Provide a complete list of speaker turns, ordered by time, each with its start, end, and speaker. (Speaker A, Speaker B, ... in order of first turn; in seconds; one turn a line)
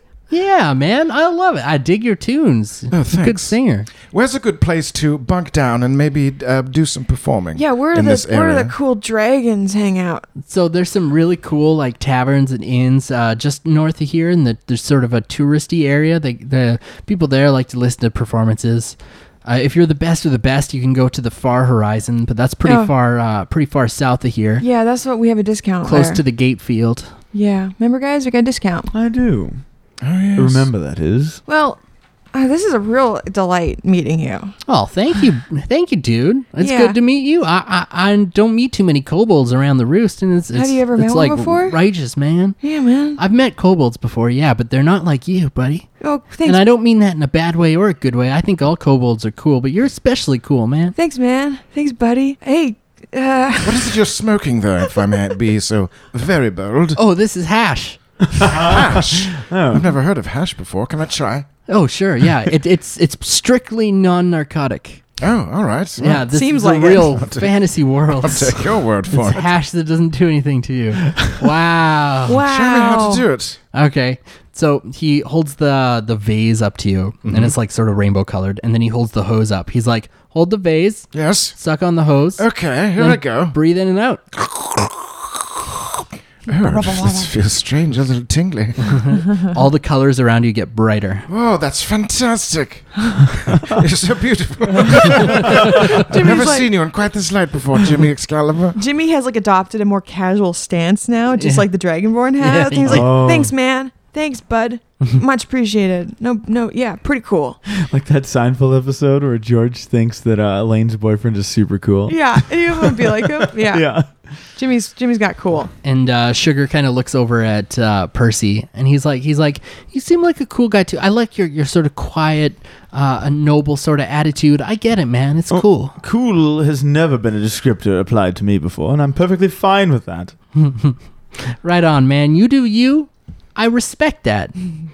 Speaker A: 0.3-3.9
Speaker B: 2.9-3.5
Speaker B: 4.1-8.7
Speaker C: 7.6-10.3
Speaker A: 10.4-24.6
Speaker C: 22.6-22.9
Speaker C: 24.6-26.2
Speaker A: 25.9-27.1
Speaker C: 27.3-28.9
Speaker D: 28.9-29.6
Speaker B: 30.0-30.7
Speaker D: 30.4-31.4
Speaker C: 31.5-31.8
Speaker C: 32.3-34.5
Speaker A: 34.7-42.6
Speaker C: 36.6-37.0
Speaker C: 40.5-41.8
Speaker C: 42.6-43.2
Speaker A: 43.2-45.9
Speaker C: 46.0-46.6
Speaker A: 46.4-51.0
Speaker C: 51.0-54.0
Speaker B: 53.6-57.0
Speaker A: 57.0-58.0
Speaker D: 58.4-59.9
Speaker B: 58.4-61.5
Speaker A: 61.7-65.0
Speaker B: 65.2-66.2
Speaker A: 66.0-72.4
Speaker C: 66.3-67.2
Speaker B: 67.1-67.5
Speaker B: 68.2-69.5
Speaker C: 72.3-73.2
Speaker B: 72.4-73.6
Speaker A: 73.7-84.2
Speaker B: 77.2-77.5
Speaker B: 81.1-81.5
Speaker B: 82.4-83.6
Speaker B: 84.3-85.6
Speaker B: 86.5-89.0
Speaker C: 86.5-87.3
Speaker A: 88.9-91.3
Speaker B: 91.3-98.8
Speaker C: 95.6-96.7
Speaker C: 98.8-107.6
Speaker A: 101.4-101.7
Speaker A: 102.4-103.2
Speaker D: 102.8-103.5
Speaker D: 107.7-114.1
Speaker C: 112.1-113.9
Speaker C: 114.6-115.7
Speaker A: 115.8-126.0
Speaker D: 125.5-130.3
Speaker A: 130.6-134.6